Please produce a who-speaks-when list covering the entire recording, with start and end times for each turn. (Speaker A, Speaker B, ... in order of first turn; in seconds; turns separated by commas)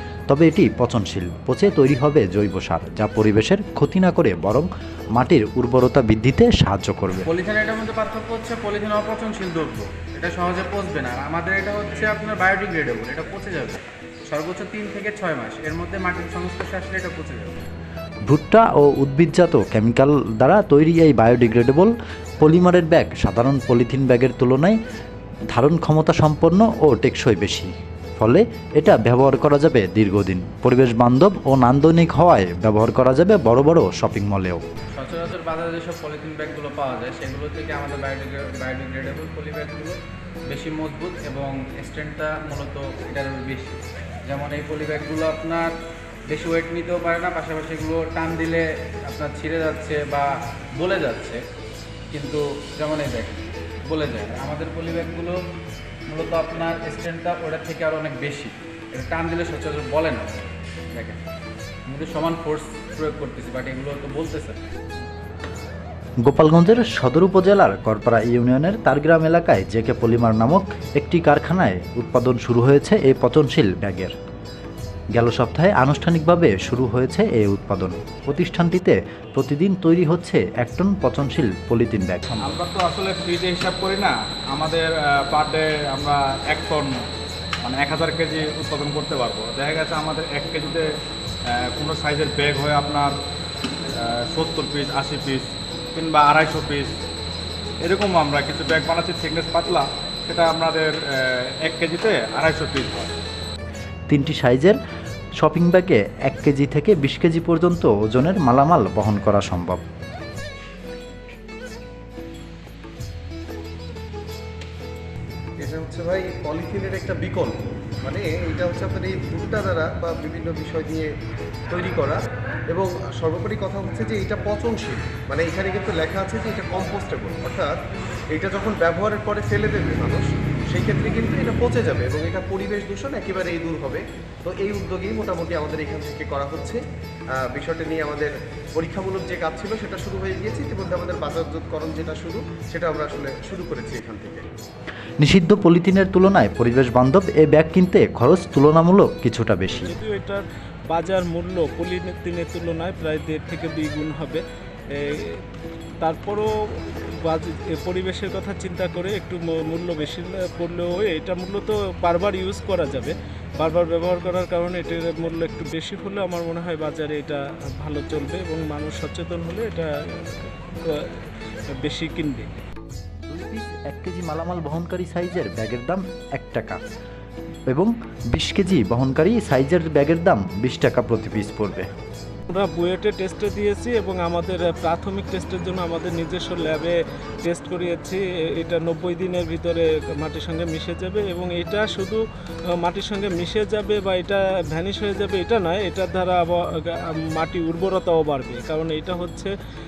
Speaker A: 0.3-7.3, Speaker B: 7.3-17.6, Speaker A: 18.3-24.8, Speaker A: 25.5-34.6, Speaker B: 35.0-45.7, Speaker B: 46.3-51.4, Speaker B: 52.1-55.4, Speaker B: 56.1-61.2, Speaker B: 61.9-64.6, Speaker A: 66.2-74.1, Speaker A: 75.2-82.6, Speaker C: 82.4-87.1, Speaker C: 87.6-90.9, Speaker C: 91.5-93.2, Speaker C: 94.0-97.0, Speaker C: 97.8-103.1, Speaker A: 104.1-104.8, Speaker A: 105.4-109.8, Speaker D: 115.6-121.1, Speaker D: 121.7-127.8, Speaker D: 128.3-136.8, Speaker D: 137.4-144.4, Speaker A: 145.2-149.9, Speaker E: 149.7-154.4, Speaker E: 154.9-155.4, Speaker E: 156.0-156.5, Speaker E: 157.2-172.5, Speaker A: 173.3-176.8, Speaker A: 177.7-181.9, Speaker E: 182.5-192.2, Speaker E: 192.8-199.5